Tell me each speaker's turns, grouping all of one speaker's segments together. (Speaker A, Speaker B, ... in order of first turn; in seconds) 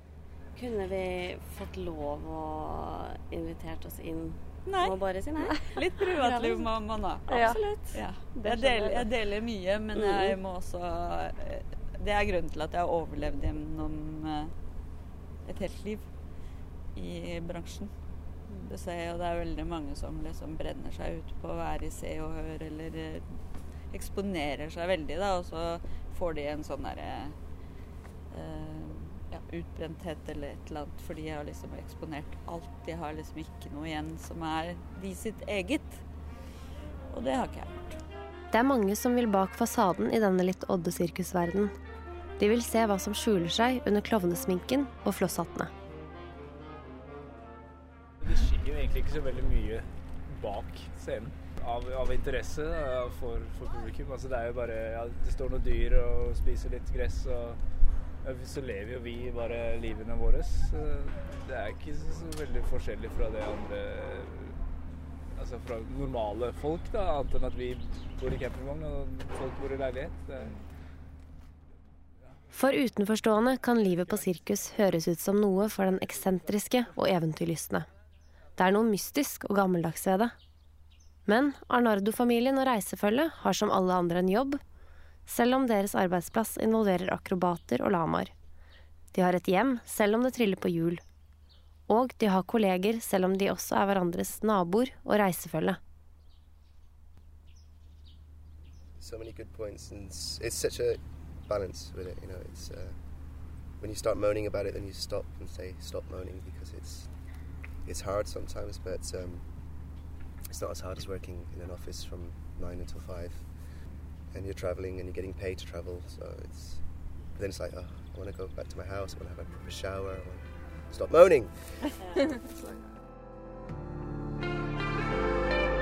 Speaker A: 0.5-6.7, 7.2-9.3, 9.9-10.4, 122.0-122.3
Speaker B: 4.6-14.5, 15.4-16.1, 16.9-17.9, 18.5-27.4, 28.3-36.0, 37.1-38.0
Speaker C: 38.5-41.7, 42.4-45.7, 72.5-77.9, 78.5-80.3, 81.2-84.6, 85.2-88.3, 89.1-91.0, 91.9-95.8
Speaker D: 48.2-57.6, 58.2-64.6, 65.3-70.6
Speaker E: 99.0-103.0, 103.8-107.1, 107.8-109.9, 110.5-113.7, 114.3-122.8